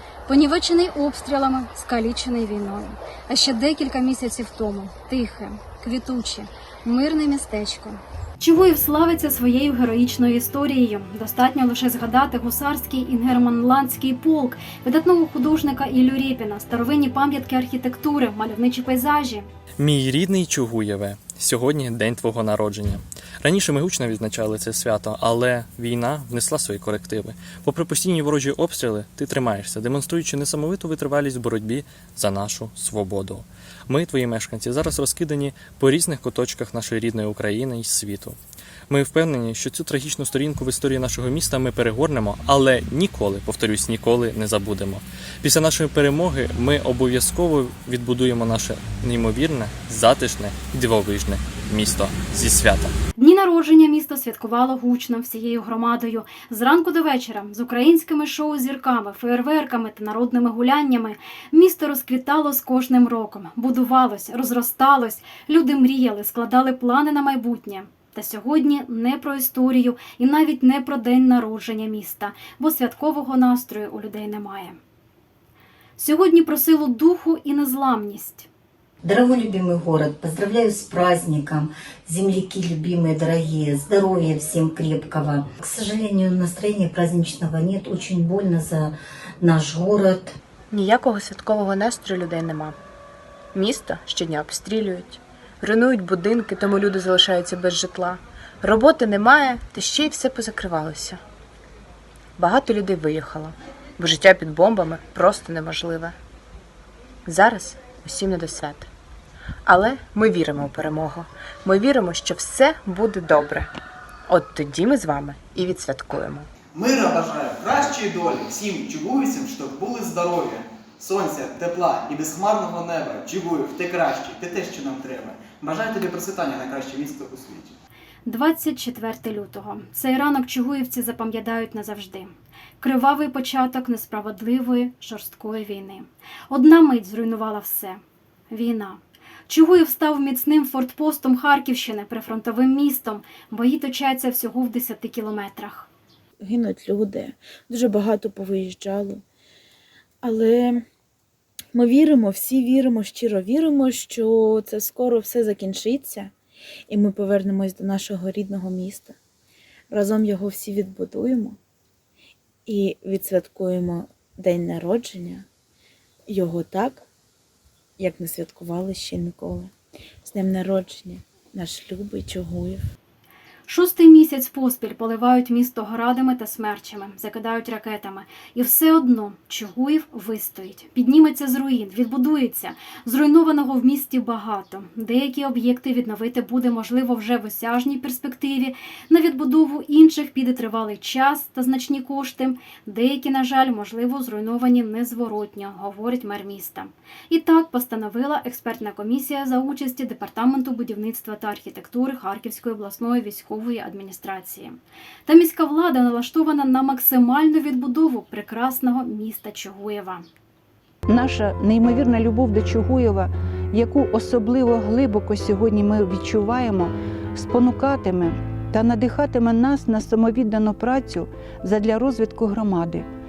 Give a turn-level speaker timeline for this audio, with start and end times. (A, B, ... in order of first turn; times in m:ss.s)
0:00.3-0:19.5 A
0:19.8-0:38.4 B
0:38.9-0:53.0 B
0:53.2-1:14.8 A
1:16.0-1:18.5 A
1:19.0-1:30.3 C
1:30.7-1:32.8 D
1:33.5-1:41.2 D
1:42.4-1:46.1 D
1:47.2-1:48.9 D
1:49.6-1:53.7 D
1:54.3-1:56.5 D
1:56.7-2:07.8 E
2:08.2-2:25.9 A
2:26.4-2:29.2 F
2:30.2-2:30.8 F
2:31.7-2:36.3 F
2:36.9-2:39.2 F
2:39.9-2:41.6 F
2:42.6-2:45.4 F
2:46.3-2:47.0 F
2:48.0-2:52.8 F
2:53.7-3:30.2 A
3:31.1-3:43.1 G